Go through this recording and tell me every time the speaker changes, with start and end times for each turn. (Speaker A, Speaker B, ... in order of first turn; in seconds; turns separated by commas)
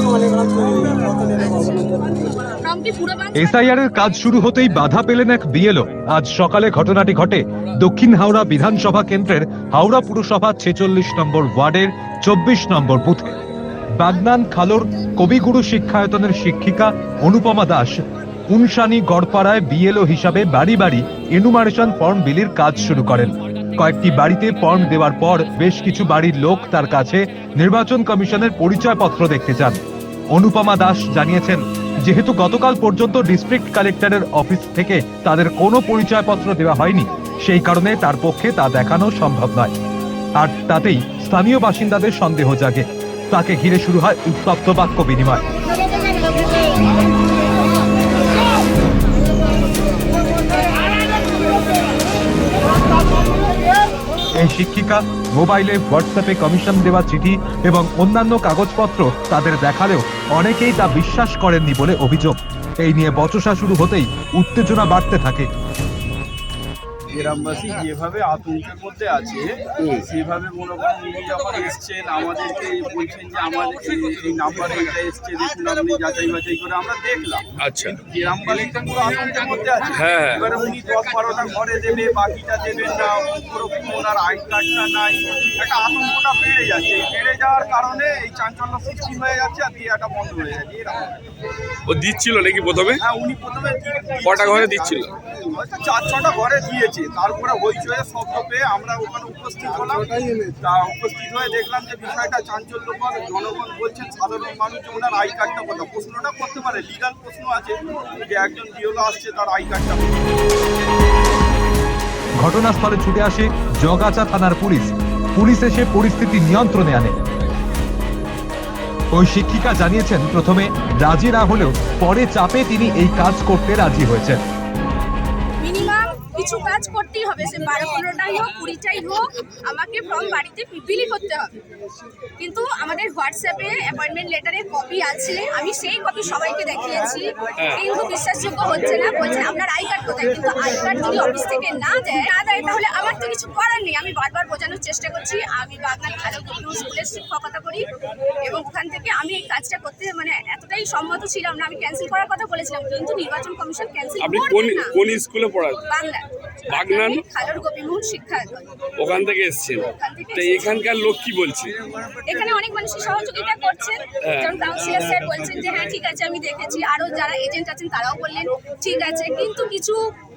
Speaker A: 2.4-3.5, Speaker B: 3.3-13.3, Speaker B: 14.0-29.8, Speaker B: 30.3-39.7, Speaker B: 40.4-45.4, Speaker B: 54.3-65.5, Speaker C: 67.1-91.1, Speaker D: 69.8-70.0, Speaker D: 77.6-78.0, Speaker D: 79.9-80.5, Speaker D: 91.9-93.0, Speaker C: 93.0-110.3, Speaker D: 94.2-95.1, Speaker B: 112.4-117.2, Speaker B: 119.1-124.4, Speaker A: 125.6-131.5, Speaker A: 132.4-147.9, Speaker A: 148.4-154.9, Speaker D: 154.2-155.8, Speaker A: 155.9-158.7, Speaker D: 156.7-157.2, Speaker D: 159.0-161.8, Speaker A: 159.8-160.8, Speaker A: 162.2-170.0, Speaker D: 164.2-164.6